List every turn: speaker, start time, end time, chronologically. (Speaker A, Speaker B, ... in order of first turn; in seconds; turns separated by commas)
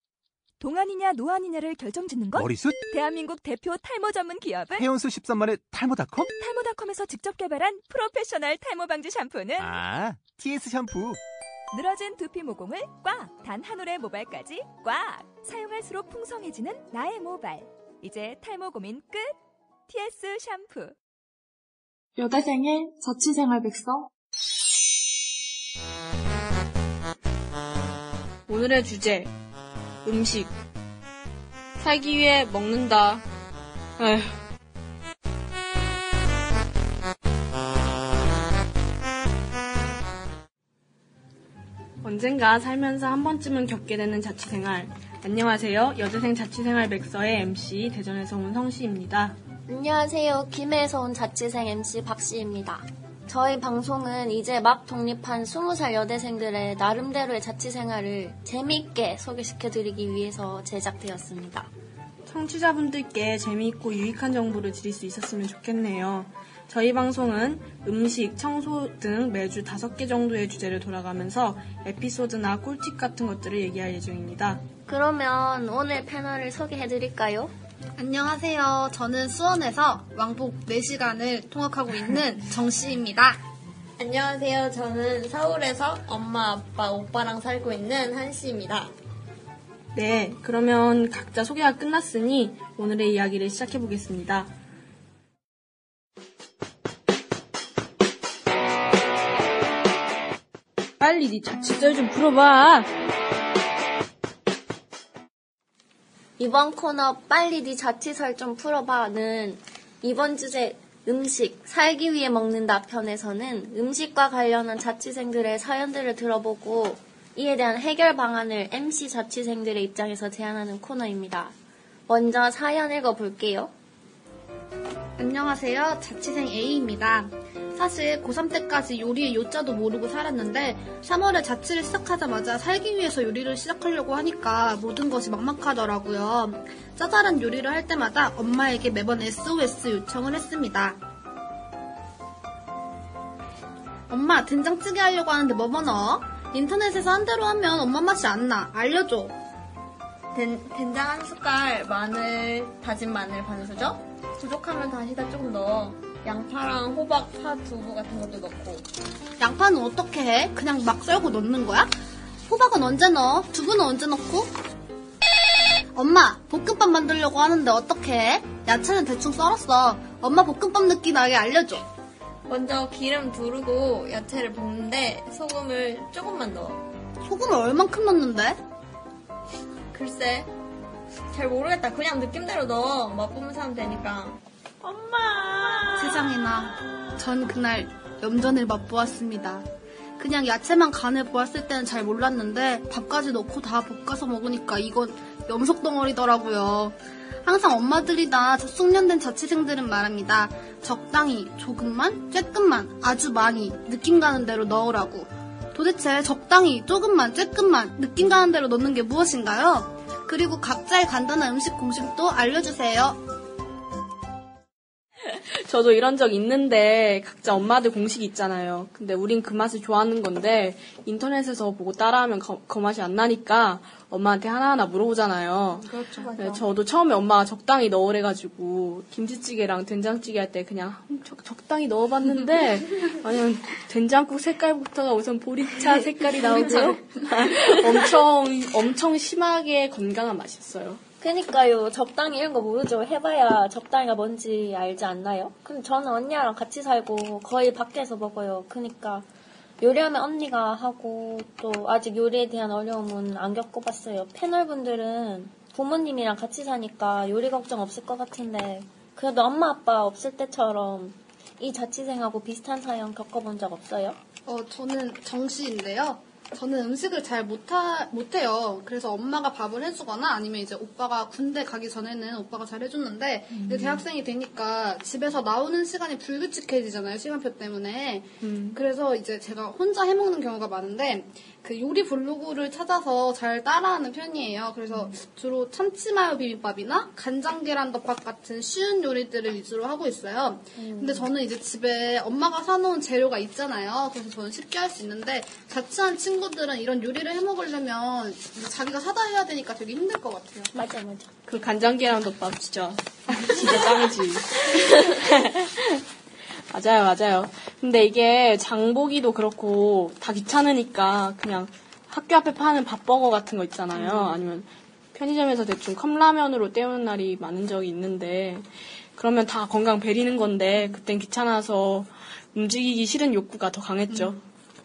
Speaker A: 0.6-4.9, Speaker B: 2.3-2.8, Speaker B: 4.8-6.3, Speaker A: 6.2-9.9, Speaker B: 9.6-11.2, Speaker A: 11.7-19.3, Speaker A: 19.9-21.0, Speaker C: 28.5-29.3, Speaker C: 30.1-30.6, Speaker C: 31.8-33.2, Speaker C: 34.0-34.4, Speaker C: 42.0-49.4, Speaker D: 49.7-61.7, Speaker C: 62.3-74.6, Speaker D: 74.9-77.5, Speaker E: 78.0-83.4, Speaker F: 84.0-88.9, Speaker C: 90.0-94.5, Speaker C: 101.0-102.9, Speaker D: 106.4-121.5, Speaker D: 122.1-123.7, Speaker E: 125.2-141.0, Speaker E: 144.1-149.4, Speaker F: 150.3-158.9, Speaker E: 159.4-161.9, Speaker E: 162.5-164.5, Speaker E: 165.9-171.8, Speaker F: 172.5-176.8, Speaker E: 177.2-178.6, Speaker F: 179.9-180.5, Speaker F: 181.3-186.6, Speaker E: 186.0-189.7, Speaker E: 190.2-213.2, Speaker C: 215.3-241.0, Speaker E: 226.0-226.3, Speaker D: 241.2-249.3, Speaker D: 249.8-264.2, Speaker E: 264.5-300.7, Speaker C: 273.5-274.0, Speaker C: 278.4-278.8, Speaker D: 290.8-291.3, Speaker D: 300.7-301.3, Speaker C: 301.5-306.0, Speaker C: 306.5-324.4, Speaker E: 324.1-324.4